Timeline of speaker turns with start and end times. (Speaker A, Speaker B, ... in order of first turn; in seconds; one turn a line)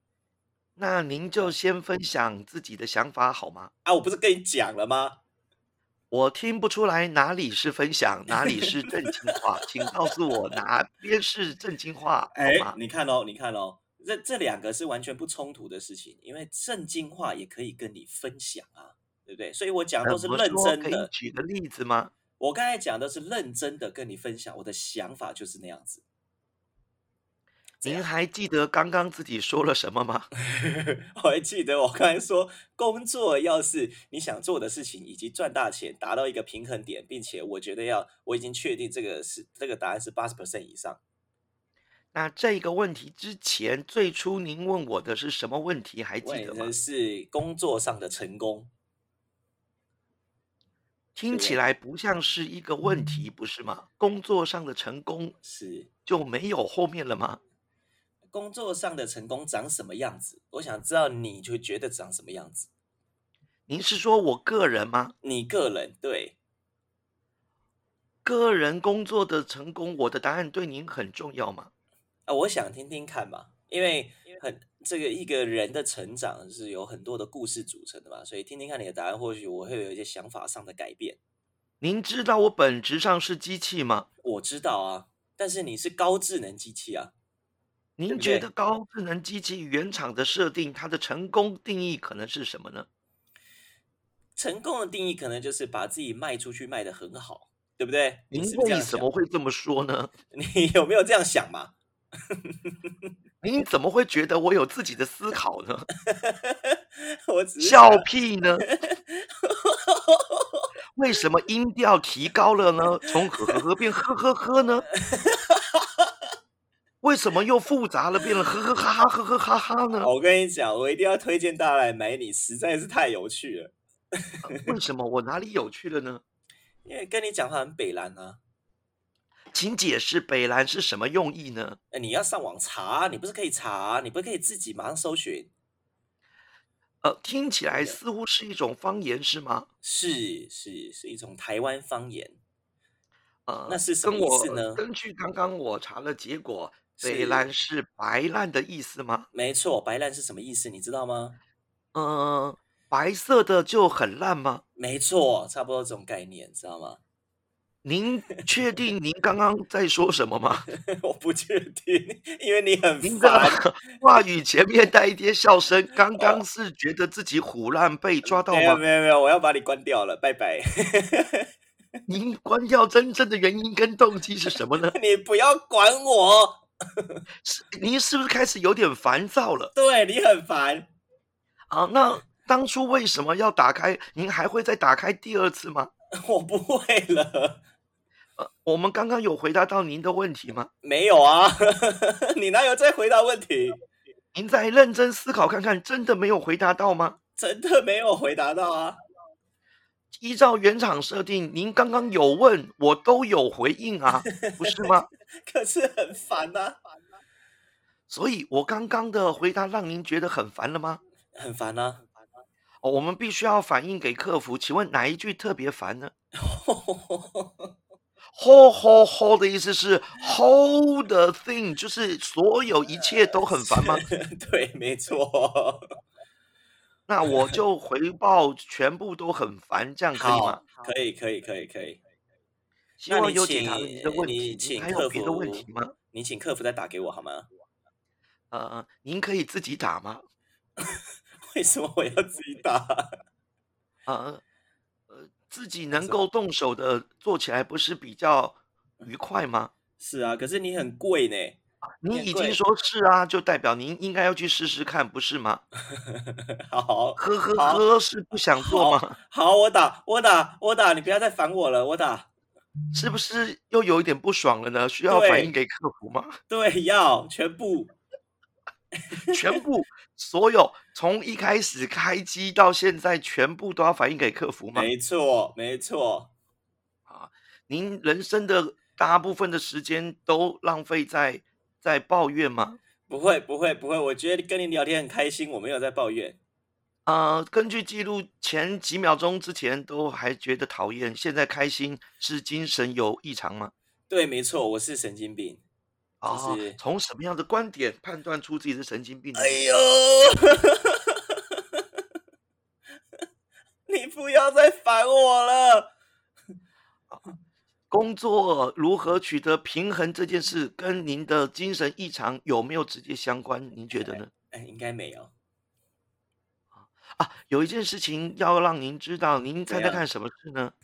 Speaker A: 0.8-3.7
Speaker B: 3.8-5.2
Speaker A: 6.1-12.8
Speaker B: 8.4-8.8
Speaker B: 12.3-21.1
Speaker A: 20.0-22.1
Speaker B: 22.4-26.0
Speaker B: 27.8-28.1
Speaker A: 27.8-30.3
Speaker B: 30.5-41.0
Speaker A: 42.1-46.7
Speaker B: 46.2-48.7
Speaker A: 51.1-55.3
Speaker B: 51.3-51.6
Speaker B: 55.4-55.9
Speaker A: 56.0-57.4
Speaker B: 58.3-62.7
Speaker A: 63.7-65.1
Speaker B: 65.2-66.4
Speaker A: 68.2-71.7
Speaker B: 72.3-81.2
Speaker A: 81.8-84.1
Speaker B: 84.2-87.1
Speaker A: 88.0-92.9
Speaker B: 88.1-88.5
Speaker B: 94.3-99.1
Speaker A: 98.3-100.1
Speaker B: 100.3-101.7
Speaker B: 102.3-102.9
Speaker A: 103.4-105.9
Speaker B: 106.0-108.1
Speaker A: 107.6-108.7
Speaker B: 108.7-110.7
Speaker A: 111.0-114.8
Speaker B: 115.0-116.1
Speaker A: 117.0-120.1
Speaker B: 120.0-124.4
Speaker A: 124.4-126.2
Speaker B: 126.8-128.4
Speaker A: 129.5-131.8
Speaker B: 131.9-135.5
Speaker A: 137.0-139.7
Speaker B: 137.7-138.0
Speaker B: 139.8-142.4
Speaker A: 143.5-149.3
Speaker B: 143.7-144.8
Speaker B: 147.0-147.4
Speaker B: 149.3-151.4
Speaker A: 151.9-154.6
Speaker B: 154.8-157.0
Speaker A: 157.8-160.7
Speaker B: 160.7-163.8
Speaker A: 163.0-168.8
Speaker B: 168.2-171.4
Speaker A: 172.1-174.9
Speaker B: 174.8-177.2
Speaker A: 177.4-179.7
Speaker B: 179.7-180.9
Speaker A: 181.7-185.9
Speaker B: 186.2-187.6
Speaker A: 188.4-190.7
Speaker B: 190.8-193.8
Speaker A: 194.3-197.2
Speaker B: 197.3-199.0
Speaker A: 200.1-205.1
Speaker B: 204.3-206.8
Speaker A: 208.1-211.0
Speaker B: 211.3-212.1
Speaker A: 212.8-216.1
Speaker B: 216.4-217.7
Speaker A: 218.3-224.0
Speaker B: 223.3-225.9
Speaker A: 227.1-230.6
Speaker B: 227.3-227.6
Speaker B: 230.1-232.0
Speaker A: 233.0-235.9
Speaker B: 233.1-237.5
Speaker A: 238.5-240.2
Speaker B: 240.8-243.2
Speaker A: 244.1-244.4
Speaker A: 245.1-249.7
Speaker B: 246.0-246.2
Speaker B: 250.0-251.6
Speaker A: 252.0-255.6
Speaker B: 252.1-252.6
Speaker B: 255.9-257.8
Speaker A: 257.2-259.2
Speaker B: 258.5-262.3
Speaker A: 262.9-266.4
Speaker B: 265.1-265.5
Speaker B: 266.5-267.9
Speaker A: 269.3-274.9
Speaker B: 274.7-276.3
Speaker A: 277.1-282.8
Speaker B: 283.1-286.4
Speaker A: 287.1-293.7
Speaker B: 294.1-295.6
Speaker A: 296.2-299.6
Speaker B: 296.2-296.8
Speaker B: 299.4-301.8
Speaker B: 303.9-305.9
Speaker A: 307.9-314.3
Speaker B: 313.9-315.3
Speaker A: 316.7-320.7
Speaker B: 319.7-320.0